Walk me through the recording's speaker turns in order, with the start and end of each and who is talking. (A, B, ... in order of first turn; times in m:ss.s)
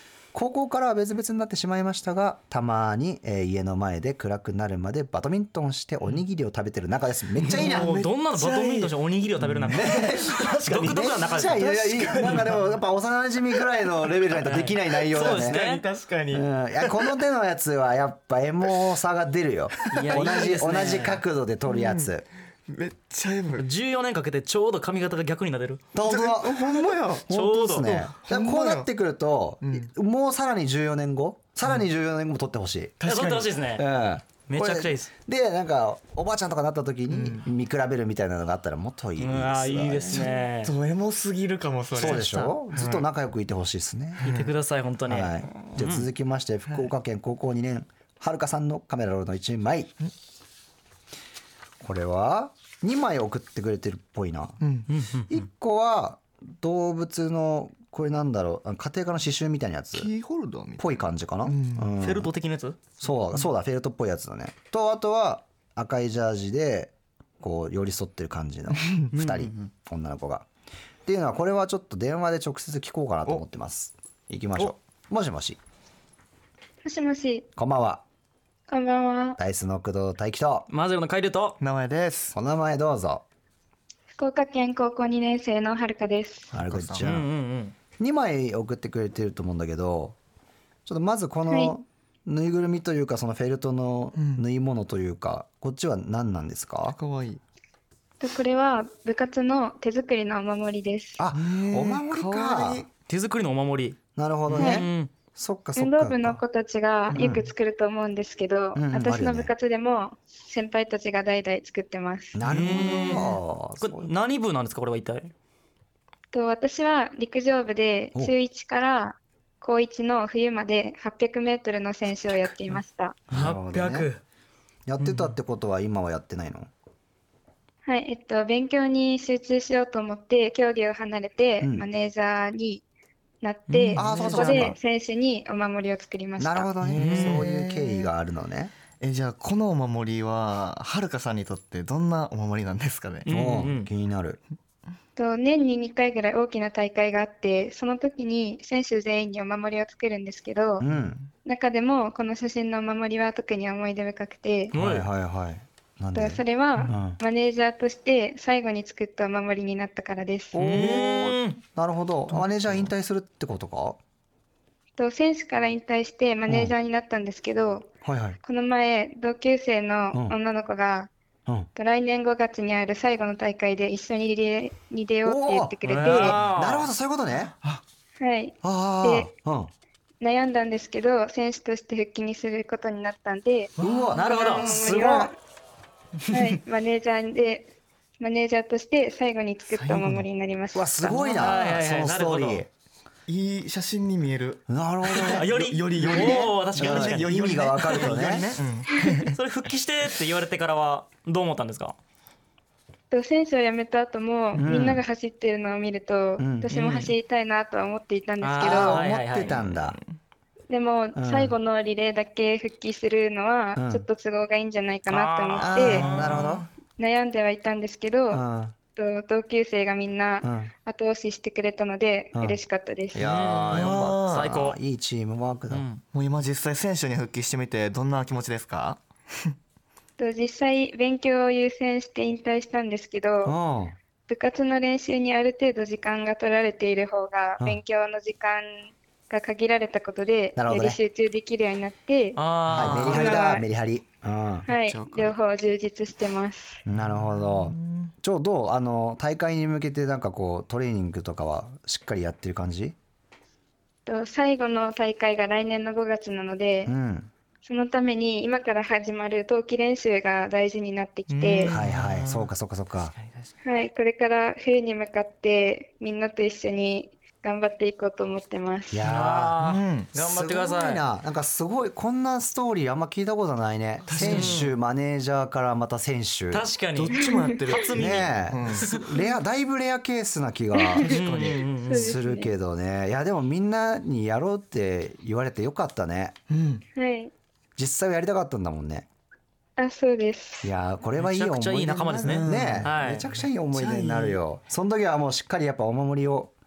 0:00.3-0:07.9 A
0:07.4-0:12.6 B
0:07.5-0:11.6 C
0:09.7-0:10.3 A
0:10.9-0:15.6 A
0:12.2-0:12.5 C
0:14.4-0:15.8 C
0:15.1-0:17.1 B
0:16.3-0:22.2 A
0:19.9-0:21.2 C
0:21.7-0:22.1 B
0:22.7-0:23.7 B
0:23.6-0:25.8 C
0:25.9-0:33.0 A
0:26.0-0:28.9 B
0:27.3-0:28.0 C
0:29.6-0:29.9 B
0:33.0-0:33.5 B
0:33.0-0:33.8 C
0:33.8-0:40.3 A
0:34.5-0:35.1 C
0:37.1-0:37.4 B
0:39.2-0:40.7 C
0:40.1-0:43.0 B
0:42.0-0:44.3 A
0:42.0-0:42.5 C
0:44.2-0:46.1 C
0:44.3-0:44.5 B
0:45.1-0:49.9 A
0:51.8-0:54.6 A
0:54.6-0:54.9 B
0:54.9-0:55.3 C
0:55.3-1:00.1 A
0:59.9-1:01.9 B
1:00.8-1:02.3 A
1:02.0-1:02.9 C
1:03.0-1:10.5 A
1:08.8-1:09.7 B
1:11.1-1:15.6 A
1:16.8-1:17.5 D
1:17.6-1:18.0 A
1:18.7-1:19.4 D
1:19.4-1:20.7 A
1:20.7-1:21.6 C
1:21.6-1:22.4 B
1:22.3-1:23.2 A
1:24.1-1:26.5 D
1:26.5-1:27.0 B
1:26.5-1:27.3 A
1:27.0-1:27.8 C
1:28.0-1:30.2 A
1:30.9-1:37.0 A
1:31.5-1:31.7 D
1:34.1-1:34.5 B
1:36.9-1:37.4 B
1:38.2-1:41.2 D
1:41.2-1:42.8 A
1:41.3-1:42.9 B
1:43.1-1:44.0 C
1:44.2-1:46.4 A
1:44.5-1:45.1 C
1:45.8-1:52.4 D
1:47.1-1:47.5 A
1:48.8-1:49.5 A
1:52.4-1:54.1 A
1:52.5-1:55.3 C
1:52.6-1:53.3 B
1:56.3-2:03.2 D
2:03.3-2:04.1 A
2:03.3-2:04.2 C
2:04.9-2:06.7 A
2:07.8-2:12.8 D
2:11.6-2:11.9 A
2:13.4-2:16.7 D
2:13.7-2:14.7 C
2:14.0-2:14.8 A
2:14.1-2:14.5 B
2:16.4-2:18.7 A
2:16.8-2:18.1 B
2:17.0-2:17.5 C
2:19.0-2:23.3 B
2:23.3-2:23.9 C
2:23.3-2:24.4 A
2:25.2-2:30.8 D
2:30.8-2:31.2 A
2:30.9-2:31.3 B
2:31.4-2:34.7 D
2:34.7-2:37.2 A
2:34.7-2:35.1 C
2:36.1-2:40.6 D
2:40.5-2:44.0 A
2:40.6-2:41.6 C
2:45.0-2:47.9 D
2:46.5-2:46.7 A
2:48.0-2:48.4 A
2:48.4-2:51.1 D
2:51.8-2:56.4 D
2:55.2-2:57.5 A
2:55.9-2:56.9 C
2:58.2-2:59.3 D
2:58.6-2:59.7 A
3:00.2-3:05.3 D
3:03.8-3:05.3 A
3:03.8-3:05.3 C
3:06.3-3:06.6 C
3:06.3-3:11.3 D
3:09.7-3:10.3 B
3:10.7-3:12.7 A
3:11.3-3:12.6 C
3:13.3-3:14.6 B
3:14.7-3:18.5 A
3:15.2-3:19.3 B
3:15.3-3:18.5 C
3:19.3-3:22.0 C
3:23.1-3:29.0 D
3:24.6-3:25.0 A
3:26.4-3:26.7 A
3:26.7-3:27.1 C
3:28.4-3:29.7 C
3:28.6-3:30.0 A
3:30.7-3:36.1 D
3:31.2-3:31.6 A
3:33.8-3:34.0 A
3:35.1-3:36.6 C
3:35.6-3:36.7 A
3:35.8-3:36.5 B
3:37.0-3:38.4 D
3:38.3-3:38.7 A
3:39.0-3:43.3 D
3:40.4-3:40.7 A
3:43.1-3:45.9 A
3:43.2-3:44.8 C
3:43.7-3:44.6 B
3:45.7-3:46.0 C
3:46.1-3:49.5 B
3:50.2-3:53.6 D
3:53.4-3:54.0 A
3:54.3-4:03.7 D
4:00.6-4:01.0 A
4:02.4-4:03.4 C
4:02.7-4:04.7 A
4:04.7-4:06.8 D
4:04.9-4:05.3 B
4:06.9-4:13.0 A
4:07.1-4:08.1 B
4:14.1-4:16.9 D
4:16.9-4:17.3 A
4:17.6-4:21.7 D
4:21.3-4:21.8 C
4:21.7-4:23.1 A
4:21.8-4:22.5 B
4:23.2-4:23.5 B
4:23.6-4:29.0 D
4:28.9-4:29.6 A
4:29.1-4:31.0 C
4:29.6-4:30.1 B
4:30.1-4:36.7 A
4:34.1-4:34.7 B
4:34.2-4:34.7 C
4:36.5-4:39.0 C
4:37.0-4:39.0 B
4:37.2-4:37.6 D
4:37.9-4:41.2 A
4:40.8-4:41.0 D
4:41.0-4:41.7 B
4:41.1-4:42.2 C
4:41.9-4:46.4 A
4:41.9-4:42.5 D
4:46.5-4:46.8 B
4:47.0-4:47.3 D
4:47.8-4:49.1 A
4:49.8-4:50.7 D
4:50.6-4:56.5 A
4:51.2-4:53.2 C
4:52.2-4:53.2 B
4:53.7-4:54.4 B